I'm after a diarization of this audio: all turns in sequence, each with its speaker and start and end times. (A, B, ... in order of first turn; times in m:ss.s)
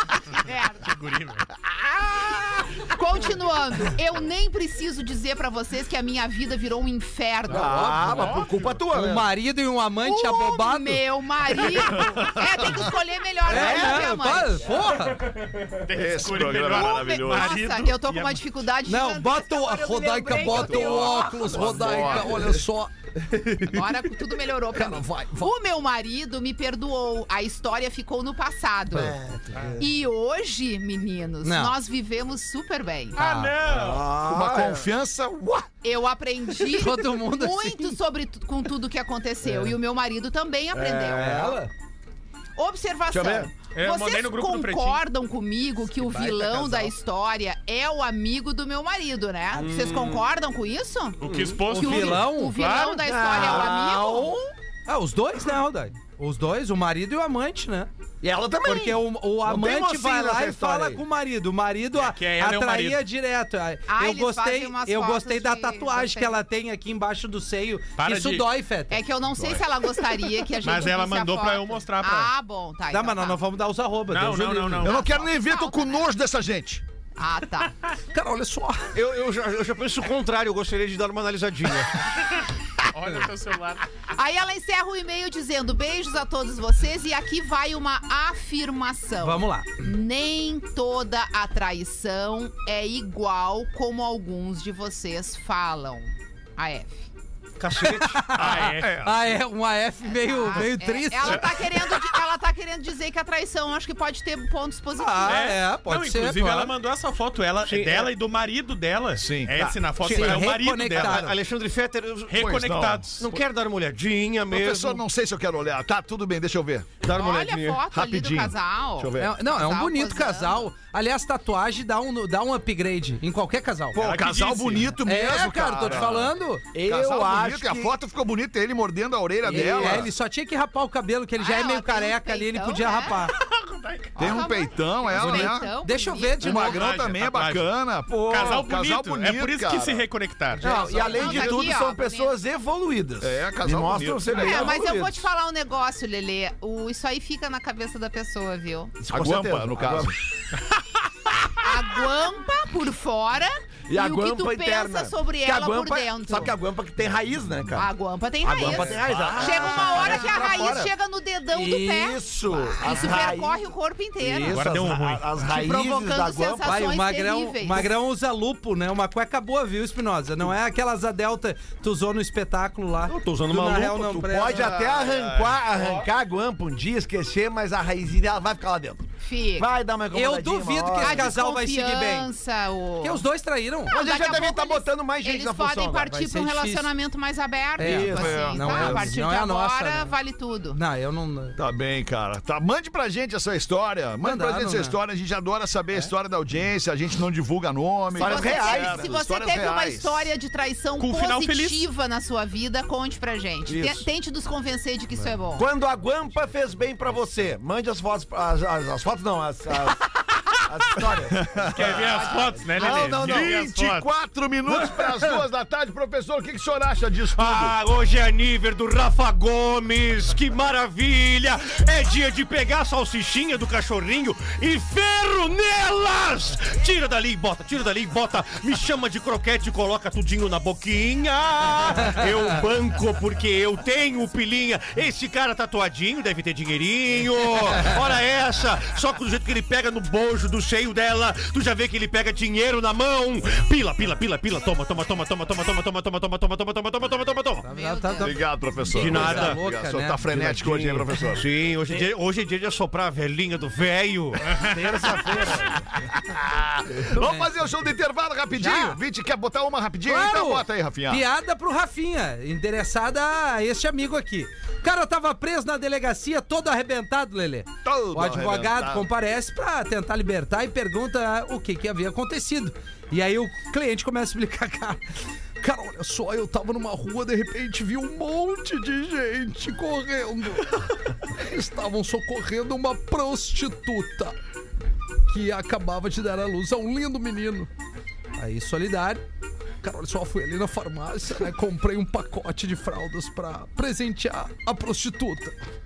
0:00.4-0:00.9 A
0:00.8-0:01.4 B
0:02.0-0:08.1 A
0:07.5-0:09.3 C
0:07.5-0:08.5 B
0:08.9-0:11.0 D
0:10.0-0:14.7 A
0:12.1-0:12.7 E
0:13.4-0:15.2 D
0:13.5-0:14.1 C
0:15.3-0:18.4 B
0:15.9-0:17.5 E
0:16.6-0:21.5 A
0:18.8-0:23.8 D
0:20.3-0:22.6 E
0:23.6-0:29.2 A
0:24.7-0:25.5 D
0:28.9-0:29.8 C
0:29.8-0:33.2 A
0:31.4-0:31.8 D
0:33.2-0:33.5 D
0:33.2-0:34.1 B
0:33.6-0:34.9 C
0:34.2-0:35.7 E
0:35.8-0:41.5 A
0:36.7-0:38.0 D
0:39.4-0:39.7 D
0:40.7-0:41.6 C
0:41.1-0:41.7 D
0:42.6-0:54.4 A
0:43.1-0:43.5 C
0:43.7-0:45.0 B
0:45.9-0:46.9 D
0:49.5-0:50.2 F
0:51.2-0:53.0 B
0:51.3-0:51.6 F
0:51.7-0:52.6 D
0:52.9-0:54.5 C
0:54.9-0:57.9 D
0:58.2-1:01.0 C
0:58.6-1:09.0 D
1:01.9-1:03.0 B
1:03.9-1:06.4 A
1:08.0-1:08.4 B
1:08.9-1:13.4 A
1:10.6-1:12.3 B
1:12.9-1:14.9 D
1:14.1-1:15.0 B
1:14.8-1:16.8 E
1:14.9-1:16.0 A
1:17.2-1:17.7 A
1:18.1-1:19.0 D
1:18.9-1:22.0 F
1:22.8-1:23.8 B
1:24.1-1:37.1 A
1:29.2-1:29.8 D
1:37.6-1:38.2 F
1:37.8-1:41.5 D
1:38.3-1:39.0 B
1:38.4-1:39.2 E
1:40.1-1:45.5 A
1:45.0-1:46.7 D
1:45.2-1:51.3 B
1:47.6-1:48.1 F
1:49.2-1:49.6 E
1:49.7-1:52.6 F
1:50.0-1:51.4 D
1:52.3-1:53.3 B
1:52.4-1:53.2 E
1:53.2-1:55.0 F
1:54.5-1:57.0 E
1:57.0-1:57.8 F
1:57.1-2:00.7 A
1:57.9-1:59.4 E
1:59.2-2:04.0 D
2:03.9-2:10.1 E
2:03.9-2:05.0 B
2:05.0-2:06.6 D
2:06.7-2:07.9 C
2:09.4-2:10.1 C
2:09.4-2:13.3 D
2:11.4-2:13.3 A
2:13.4-2:14.3 B
2:14.2-2:16.8 A
2:14.2-2:15.7 E
2:15.1-2:16.8 D
2:16.4-2:20.0 E
2:16.5-2:17.7 B
2:18.3-2:20.8 B
2:20.6-2:25.3 C
2:20.6-2:22.4 A
2:23.2-2:24.7 E
2:24.3-2:29.0 A
2:29.0-2:30.2 C
2:29.1-2:30.2 E
2:31.6-2:36.6 A
2:33.9-2:40.9 C
2:37.7-2:44.6 A
2:38.6-2:40.6 E
2:41.5-2:41.9 D
2:41.7-2:46.7 C
2:44.5-2:45.3 B
2:45.4-2:47.9 A
2:46.6-2:54.7 D
2:53.0-2:54.6 F
2:54.3-3:01.3 C
2:54.5-2:56.0 E
2:59.2-2:59.7 A
3:00.1-3:02.3 D
3:01.0-3:03.2 A
3:03.0-3:04.0 D
3:03.9-3:10.8 A
3:03.9-3:06.2 C
3:06.1-3:06.9 D
3:07.8-3:10.1 D
3:07.8-3:08.8 C
3:07.9-3:09.0 E
3:10.7-3:11.6 D
3:11.6-3:20.3 E
3:14.2-3:15.0 D
3:18.1-3:19.1 C
3:18.2-3:25.7 A
3:21.0-3:21.9 B
3:23.7-3:24.0 C
3:25.6-3:33.5 C
3:31.3-3:37.8 E
3:31.6-3:34.1 B
3:37.3-4:07.7 F
4:07.6-4:10.3 D
4:07.7-4:08.4 A
4:08.2-4:11.5 E
4:08.9-4:09.6 F
4:10.3-4:14.6 F
4:14.6-4:15.8 C
4:16.0-4:21.2 E
4:17.2-4:17.5 D
4:18.5-4:19.0 D
4:20.0-4:35.0 D
4:27.8-4:29.1 E
4:35.6-4:44.4 D
4:45.3-4:47.7 D
4:48.4-4:49.2 D
4:49.8-4:55.6 D